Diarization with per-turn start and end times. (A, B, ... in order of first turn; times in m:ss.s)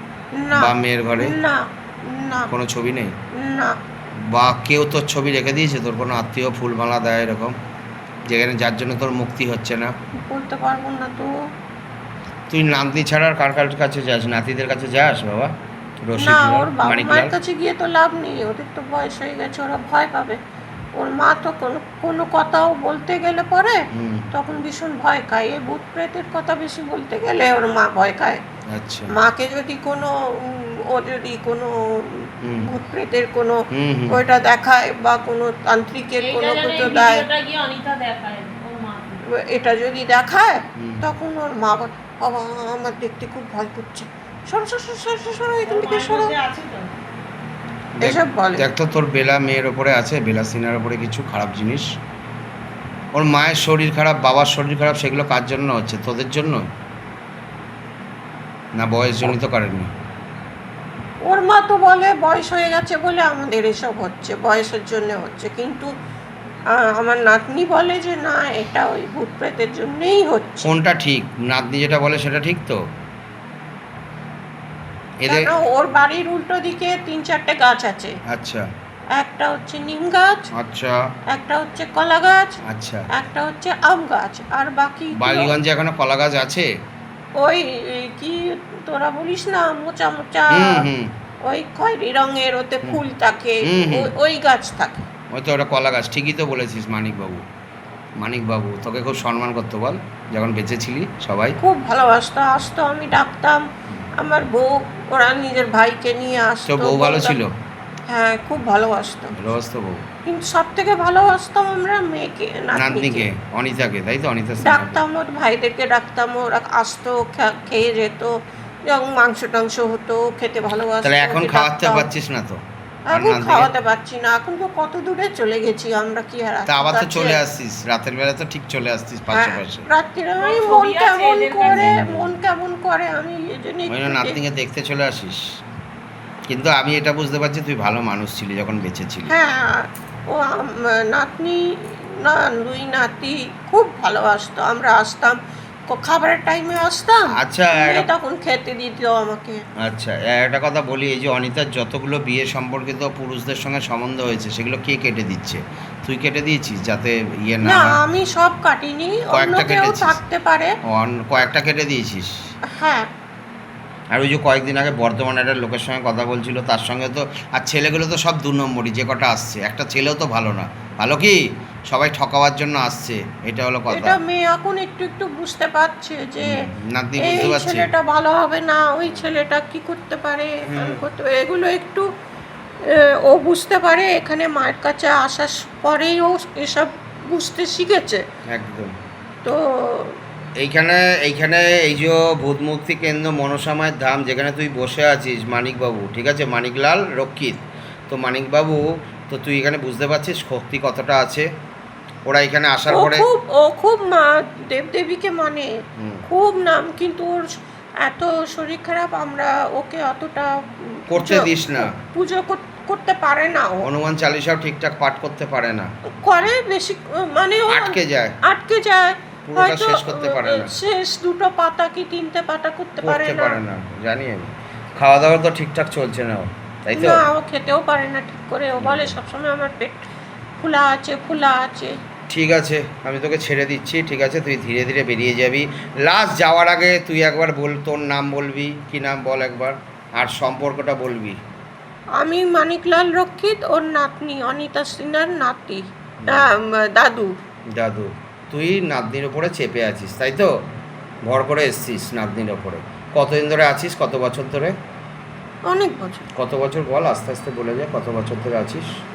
0:00.4-0:02.5 A
0:00.5-0:01.3 B
0:02.5-0:03.1 B
0:03.4-0:03.8 A
0:04.3-0:07.6 B
0:08.3-0:09.9 B
0:10.3-0:11.3 A
0:12.5-0:15.5 B
0:16.0-0:17.3 B
0:16.2-0:20.4 A
0:21.0-0:23.8 A
0:24.0-0:24.3 B
0:24.3-0:28.4 A
0:28.7-0:29.1 B
0:29.1-0:37.2 A
0:33.7-0:34.2 B
0:36.2-0:39.2 C
0:39.4-0:46.3 A
0:45.6-0:46.9 C
0:48.0-0:51.8 B
0:48.0-0:48.7 A
0:53.2-0:56.6 B
0:58.8-0:59.9 B
1:01.3-1:05.9 A
1:06.7-1:10.7 A
1:10.6-1:12.8 B
1:15.2-1:15.5 B
1:15.3-1:18.2 A
1:18.3-1:18.7 B
1:19.2-1:20.5 A
1:20.6-1:21.0 B
1:21.3-1:22.6 A
1:22.7-1:23.1 B
1:23.2-1:25.6 A
1:25.1-1:26.7 B
1:27.4-1:30.9 A
1:30.5-1:31.1 B
1:31.4-1:35.0 A
1:33.6-1:34.1 B
1:35.3-1:37.4 B
1:38.2-1:41.6 B
1:41.6-1:43.6 A
1:44.2-1:47.4 A
1:46.7-1:47.5 B
1:48.1-1:49.4 A
1:49.3-1:50.0 B
1:50.3-1:53.3 A
1:52.7-1:55.0 B
1:54.6-1:58.3 A
1:58.9-2:02.1 A
2:01.0-2:02.6 B
2:03.1-2:07.4 A
2:03.1-2:03.7 B
2:06.7-2:09.9 B
2:09.3-2:14.4 A
2:10.4-2:12.0 C
2:11.6-2:12.4 B
2:13.9-2:15.4 B
2:16.5-2:19.3 B
2:19.3-2:21.6 A
2:22.2-2:25.4 A
2:25.9-2:29.6 A
2:27.4-2:28.1 B
2:29.8-2:38.0 B
2:37.6-2:40.7 A
2:39.3-2:40.2 B
2:40.9-2:42.4 B
2:42.8-2:43.1 A
2:44.1-2:51.4 B
2:51.9-2:54.2 B
2:53.9-2:56.6 A
2:56.4-2:57.9 B
2:57.2-3:02.1 A
3:00.7-3:01.0 B
3:02.9-3:08.2 A
3:08.5-3:08.9 B
3:09.4-3:10.2 A
3:10.6-3:21.5 B
3:22.3-3:23.2 B
3:22.9-3:25.7 A
3:26.0-3:26.2 B
3:26.3-3:27.5 A
3:28.0-3:30.5 A
3:31.1-3:33.9 A
3:31.1-3:31.9 B
3:33.8-3:35.9 B
3:36.2-3:43.6 A
3:37.7-3:38.4 B
3:39.5-3:40.7 B
3:43.0-3:47.2 B
3:46.9-3:50.0 A
3:48.8-3:49.2 B
3:50.6-3:52.0 A
3:52.3-4:01.4 B
4:02.2-4:07.3 A
4:07.8-4:10.5 B
4:11.3-4:14.7 B
4:15.7-4:16.3 A
4:16.4-4:18.8 B